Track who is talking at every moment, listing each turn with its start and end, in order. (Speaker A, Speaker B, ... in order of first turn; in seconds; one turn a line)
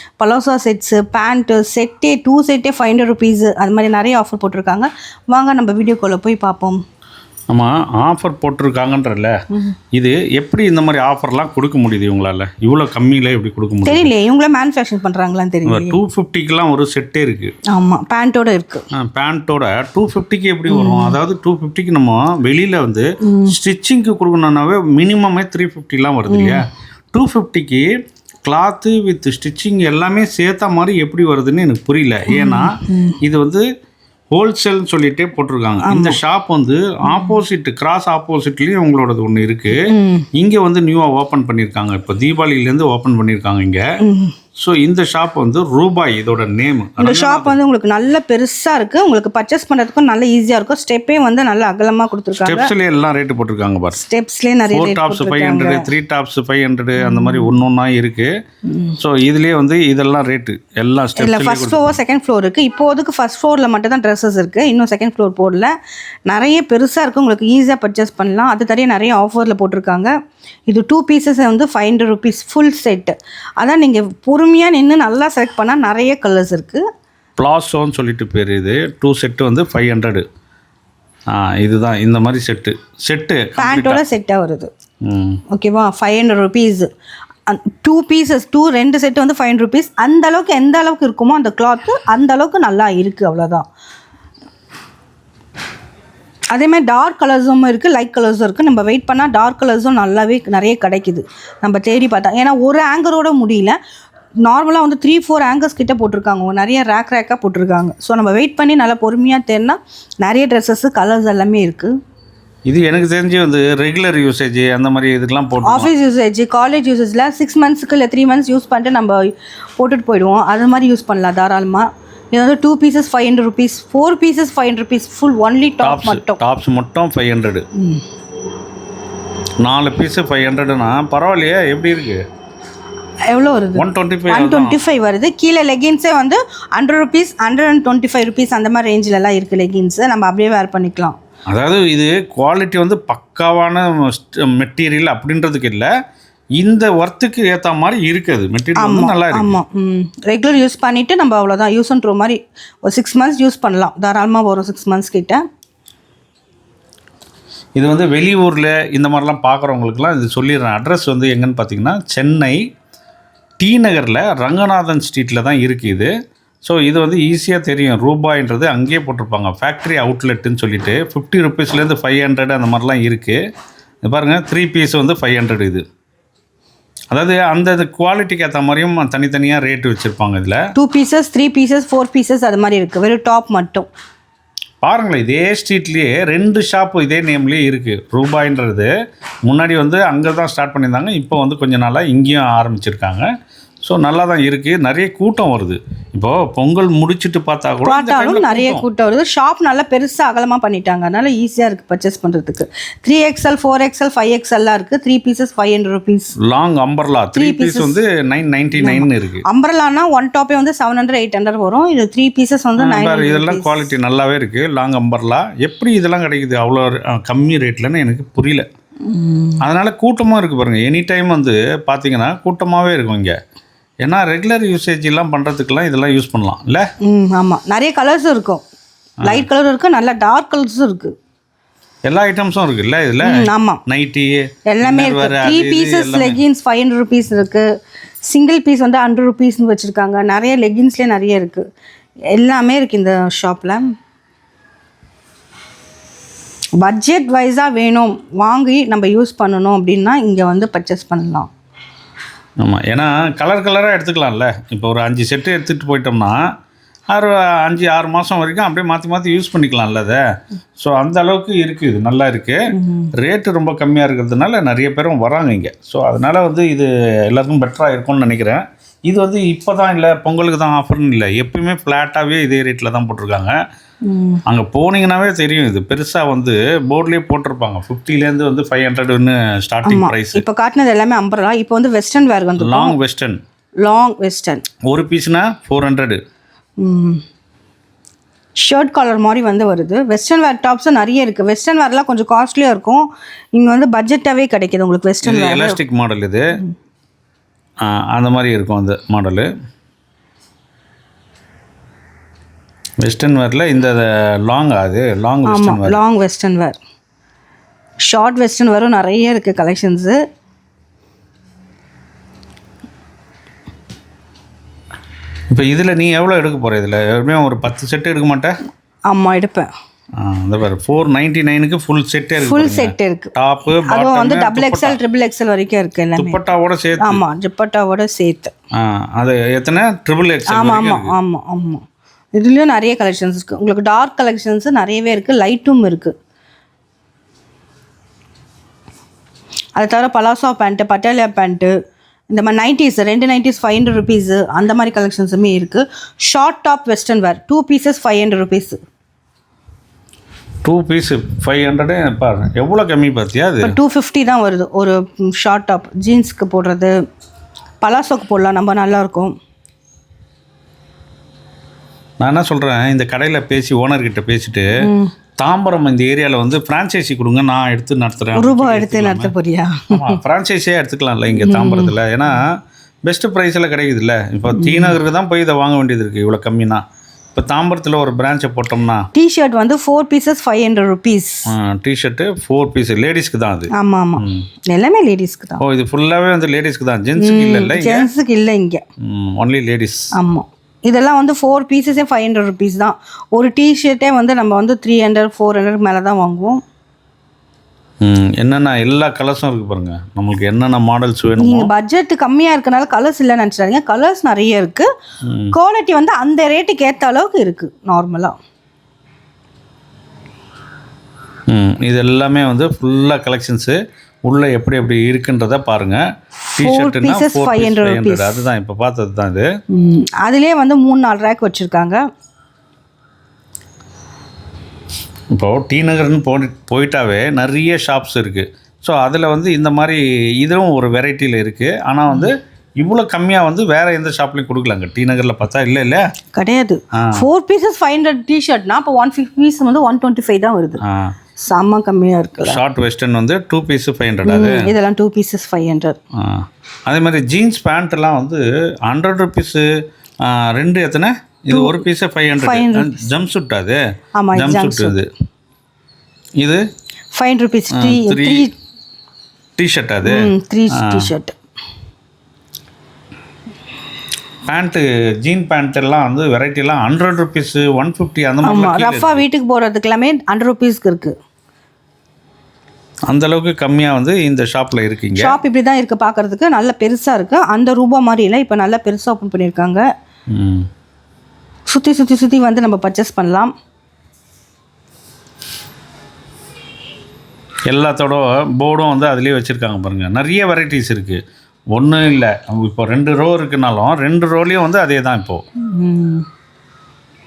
Speaker A: 0.2-6.8
Speaker B: 7.5-9.3
Speaker B: 9.9-14.1
Speaker A: 13.9-16.0
Speaker B: 15.7-17.5
Speaker A: 17.7-18.9
Speaker B: 18.9-27.9
Speaker A: 20.7-21.2
Speaker A: 23.2-23.6
Speaker A: 26.3-26.6
Speaker B: 28.4-33.6
Speaker A: 32.3-33.2
Speaker B: 34.3-43.8
Speaker A: 35.8-36.2
Speaker A: 37.0-37.4
Speaker A: 39.8-40.3
Speaker A: 44.0-44.3
Speaker B: 44.6-47.6
Speaker A: 47.0-52.7
Speaker B: 52.5-54.0
Speaker A: 53.9-55.9
Speaker B: 54.7-58.3
Speaker A: 57.0-57.5
Speaker A: 58.7-59.0
Speaker B: 59.0-62.0
Speaker A: 61.2-65.7
Speaker A: 66.3-70.1
Speaker A: 70.7-76.8
Speaker B: 77.4-80.2
Speaker B: 81.3-84.0
Speaker A: 83.6-84.7
Speaker B: 85.0-85.4
Speaker A: 85.5-86.9
Speaker A: 87.5-93.7
Speaker A: 96.5-103.8
Speaker A: 104.4-111.9
Speaker B: 112.7-115.9
Speaker A: 115.6-126.4
Speaker B: 125.8-127.7
Speaker A: 127.8-128.0
Speaker B: 129.6-132.2
Speaker A: 133.3-141.2
Speaker B: 133.8-134.8
Speaker B: 141.5-145.9
Speaker B: 146.6-149.6
Speaker A: 148.8-155.4
Speaker B: 157.8-162.6
Speaker B: 163.6-166.1
Speaker B: 166.6-173.4
Speaker B: 174.0-175.8
Speaker B: 177.1-180.6
Speaker A: 180.8-183.9
Speaker B: 184.8-188.9
Speaker B: 189.4-193.3
Speaker B: 193.8-198.9
Speaker A: 197.8-206.3
Speaker B: 206.4-209.4
Speaker A: 207.3-208.0
Speaker A: 208.8-213.8
Speaker B: 212.8-218.7
Speaker A: 219.1-219.6
Speaker B: 219.6-223.4
Speaker B: 224.0-226.8
Speaker A: 227.0-228.6
Speaker A: 229.2-231.1
Speaker B: 232.1-236.4
Speaker A: 233.2-233.8
Speaker A: 234.7-237.7
Speaker A: 238.3-241.6
Speaker A: 242.3-243.9
Speaker A: 246.8-251.5
Speaker B: 252.6-256.4
Speaker B: 257.1-260.2
Speaker B: 260.8-262.6
Speaker A: 262.7-263.1
Speaker B: 263.2-273.6
Speaker A: 274.1-274.4
Speaker B: 274.5-280.4
Speaker A: 279.9-283.0
Speaker B: 282.6-283.4
Speaker A: 283.8-284.6
Speaker B: 284.9-286.2
Speaker A: 286.8-287.2
Speaker A: 288.6-295.8
Speaker B: 295.2-296.5
Speaker B: 297.8-299.5
Speaker B: 303.0-306.0
Speaker A: 305.5-306.8
Speaker A: 308.0-310.2
Speaker B: 315.5-318.6
Speaker A: 319.1-319.7
Speaker B: 320.2-325.0
Speaker A: 322.4-326.4
Speaker B: 326.2-327.2
Speaker A: 327.0-328.5
Speaker B: 328.8-331.1
Speaker A: 330.5-336.1
Speaker A: 339.8-341.7
Speaker A: 342.3-348.8
Speaker B: 350.6-353.8
Speaker A: 353.6-356.9
Speaker A: 357.8-359.4
Speaker B: 362.2-364.7
Speaker A: 364.8-365.1
Speaker B: 365.4-369.3
Speaker A: 368.4-370.1
Speaker B: 369.9-372.5
Speaker A: 371.4-371.9
Speaker B: 373.1-376.8
Speaker A: 374.5-375.0
Speaker B: 377.3-379.0
Speaker A: 379.1-381.5
Speaker B: 381.5-384.4
Speaker A: 383.7-385.6
Speaker B: 385.6-388.1
Speaker A: 387.2-388.8
Speaker B: 389.0-390.1
Speaker A: 390.1-396.6
Speaker B: 398.0-401.7
Speaker A: 401.4-404.9
Speaker B: 405.3-405.6
Speaker A: 405.5-408.4
Speaker B: 411.5-416.0
Speaker A: 416.5-418.4
Speaker B: 416.6-419.5
Speaker A: 419.7-422.0
Speaker B: 425.3-436.0
Speaker A: 436.3-440.8
Speaker B: 436.9-437.2
Speaker B: 440.9-441.1
Speaker A: 441.4-442.6
Speaker B: 442.4-444.7
Speaker A: 444.2-446.0
Speaker B: 446.2-449.7
Speaker B: 450.2-453.8
Speaker A: 451.5-451.8
Speaker A: 452.4-453.1
Speaker A: 454.2-455.0
Speaker B: 454.3-455.1
Speaker A: 457.1-458.5
Speaker B: 457.7-458.5
Speaker B: 459.6-460.2
Speaker A: 460.0-461.4
Speaker B: 464.5-469.2
Speaker A: 468.4-471.1
Speaker B: 473.1-475.4
Speaker A: 475.2-479.9
Speaker B: 480.3-480.7
Speaker A: 481.7-483.5
Speaker B: 487.7-491.2
Speaker B: 491.7-495.4
Speaker A: 495.6-496.3